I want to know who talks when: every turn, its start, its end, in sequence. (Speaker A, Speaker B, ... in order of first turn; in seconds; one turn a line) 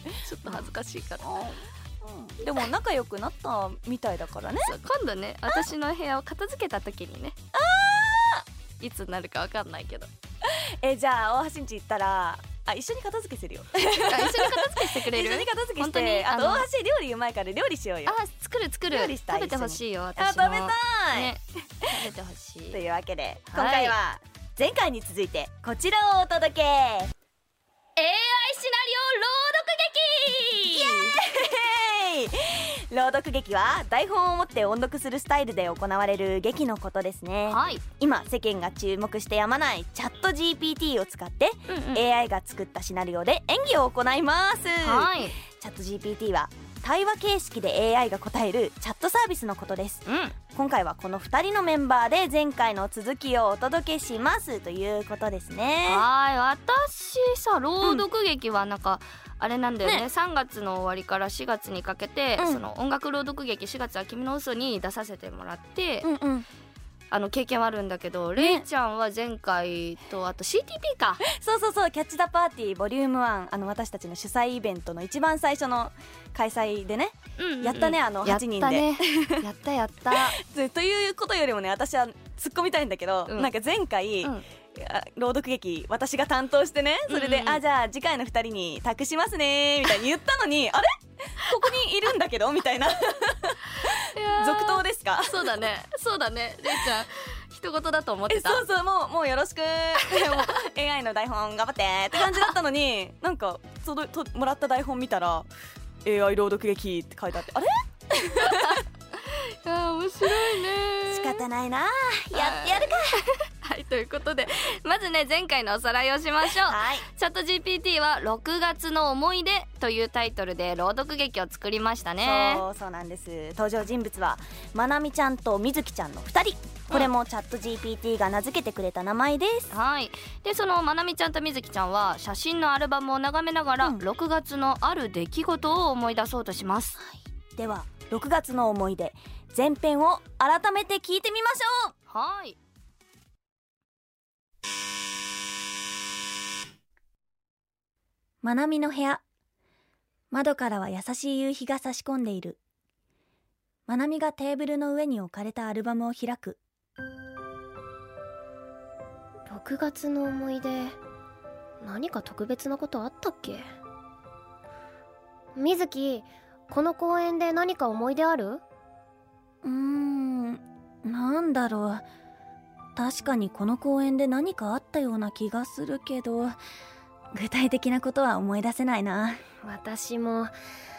Speaker A: 0.2-1.3
Speaker B: 1.2-4.7
Speaker A: 4.6-7.3
Speaker B: 7.5-8.4
Speaker A: 8.8-10.1
Speaker B: 10.4-18.2
Speaker A: 13.9-16.7
Speaker A: 18.1-22.8
Speaker B: 18.9-21.3
Speaker B: 22.7-27.1
Speaker A: 23.5-24.0
Speaker A: 27.9-31.2
Speaker B: 30.8-56.0
Speaker A: 37.5-37.8
Speaker A: 41.7-42.1
Speaker A: 44.8-45.4
Speaker A: 50.0-50.4
Speaker A: 55.9-66.1
Speaker B: 57.8-58.0
Speaker B: 62.4-62.6
Speaker B: 66.0-66.5
Speaker A: 67.1-71.2
Speaker B: 68.4-68.6
Speaker B: 71.3-79.5
Speaker A: 77.4-80.4
Speaker B: 80.1-95.5
Speaker A: 87.1-87.6
Speaker A: 93.8-98.6
Speaker B: 98.3-105.5
Speaker A: 100.0-100.5
Speaker B: 106.0-108.8
Speaker A: 108.4-111.4
Speaker B: 111.1-113.2
Speaker A: 112.3-122.6
Speaker B: 116.5-117.0
Speaker B: 122.2-129.7
Speaker A: 129.7-137.0
Speaker B: 137.0-141.9
Speaker A: 142.1-142.6
Speaker B: 148.4-149.2
Speaker B: 150.3-152.6
Speaker B: 153.9-156.6
Speaker C: 159.5-161.0
Speaker C: 161.8-163.6
Speaker C: 165.6-168.6
Speaker B: 169.6-172.0
Speaker B: 172.9-176.5
Speaker B: 177.3-179.4
Speaker C: 179.6-180.5